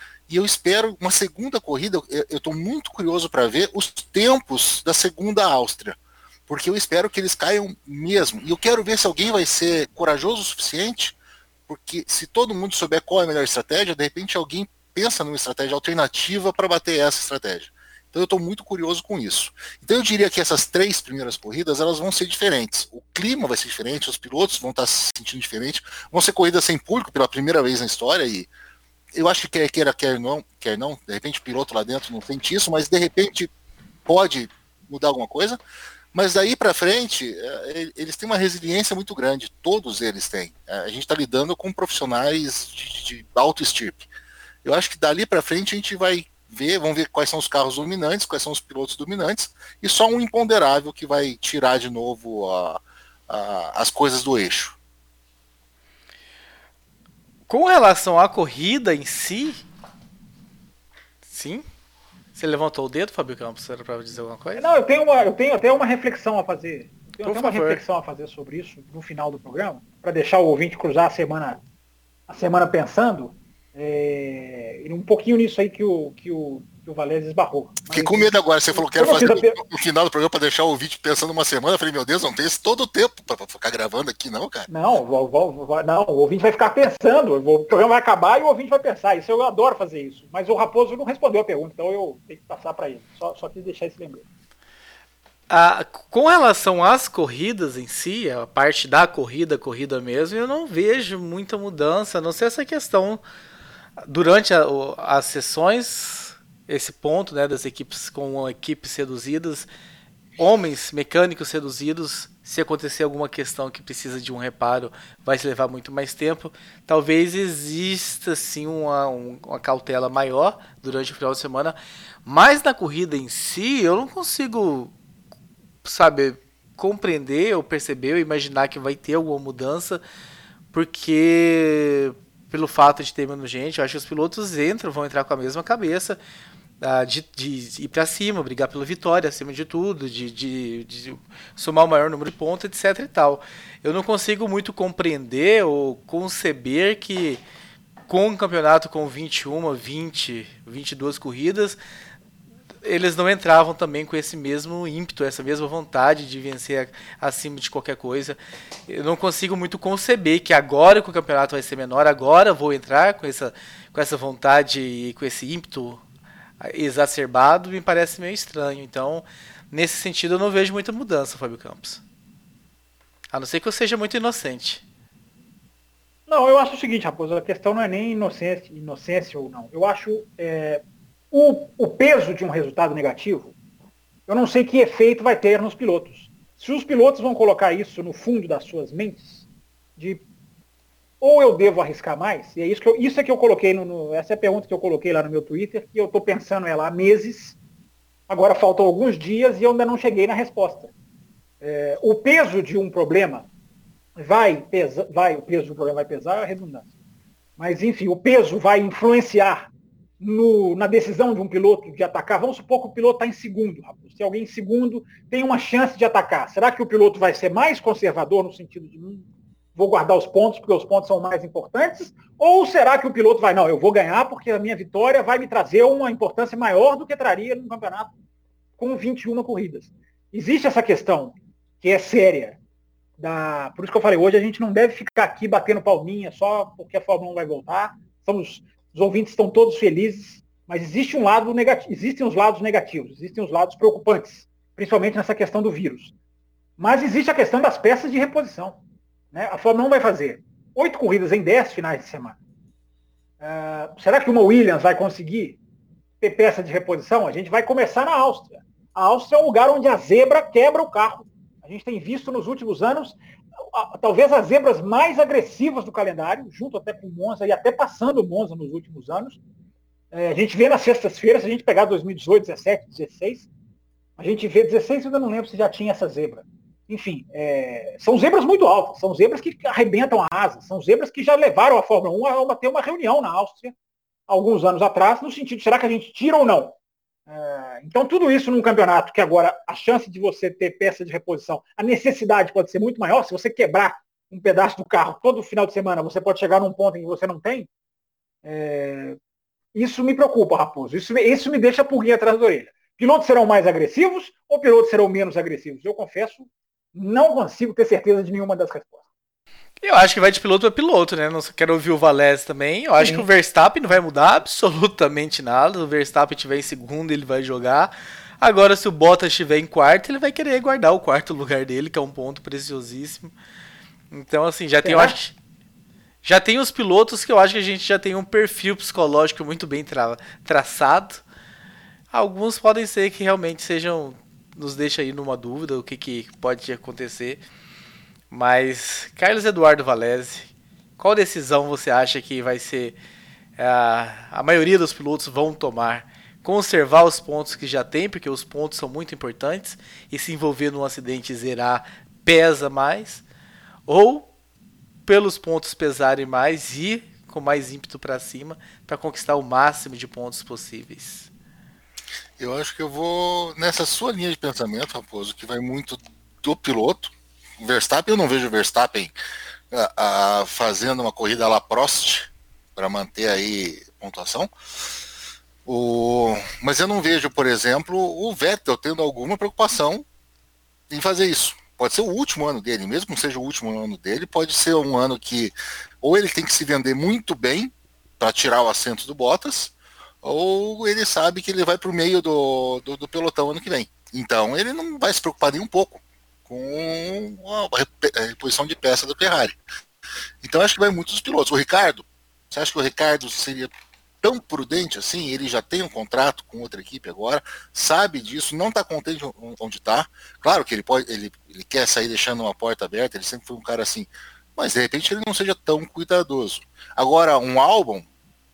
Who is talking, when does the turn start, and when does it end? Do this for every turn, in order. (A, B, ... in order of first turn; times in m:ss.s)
0:00.3-0:06.0 A
0:06.5-0:11.2 A
0:11.7-0:28.5 A
0:29.1-0:33.5 A
0:34.0-0:35.6 A
0:36.1-0:44.1 A
0:44.6-0:54.8 A
0:57.5-0:59.6 B
1:01.2-1:01.6 B
1:02.3-1:04.6 B
1:04.6-1:11.6 C
1:07.2-1:07.8 B
1:12.3-1:19.6 C
1:17.9-1:24.7 A
1:24.7-1:34.2 C
1:35.5-1:43.2 B
1:44.0-1:49.7 B
1:50.4-2:04.9 B
2:05.8-2:10.0 B
2:10.7-2:16.2 B
2:16.8-2:27.4 B
2:28.1-2:31.8 B
2:32.8-2:38.4 B
2:38.9-2:46.0 B
2:46.6-2:52.0 B
2:53.3-2:54.8 B
2:56.3-3:03.5 C
3:04.3-3:10.2 C
3:11.2-3:17.6 C
3:18.3-3:20.9 C
3:21.6-3:23.5 C
3:24.2-3:26.9 C
3:27.6-3:48.1 C
3:48.8-3:52.6 C
3:53.2-4:06.1 C
4:06.8-4:08.8 C
4:09.3-4:12.4 C
4:13.4-4:15.6 C
4:16.2-4:23.2 C
4:23.7-4:29.4 C
4:30.1-4:33.5 C
4:34.2-4:43.7 C
4:44.3-4:46.8 C
4:47.3-4:57.7 C
4:58.4-4:59.2 C
4:59.7-5:09.0 C
5:09.8-5:23.3 B
5:13.0-5:13.2 C
5:24.1-5:25.3 B
5:24.8-5:25.2 C
5:26.2-5:31.2 B
5:32.1-5:37.4 B
5:38.3-5:42.9 B
5:43.6-5:53.2 B
5:53.9-5:54.3 B
5:55.0-6:01.3 B
6:02.4-6:09.1 A
6:09.7-6:14.5 A
6:15.6-6:20.0 A
6:20.9-6:39.6 A
6:40.4-6:43.7 A
6:44.2-6:58.1 A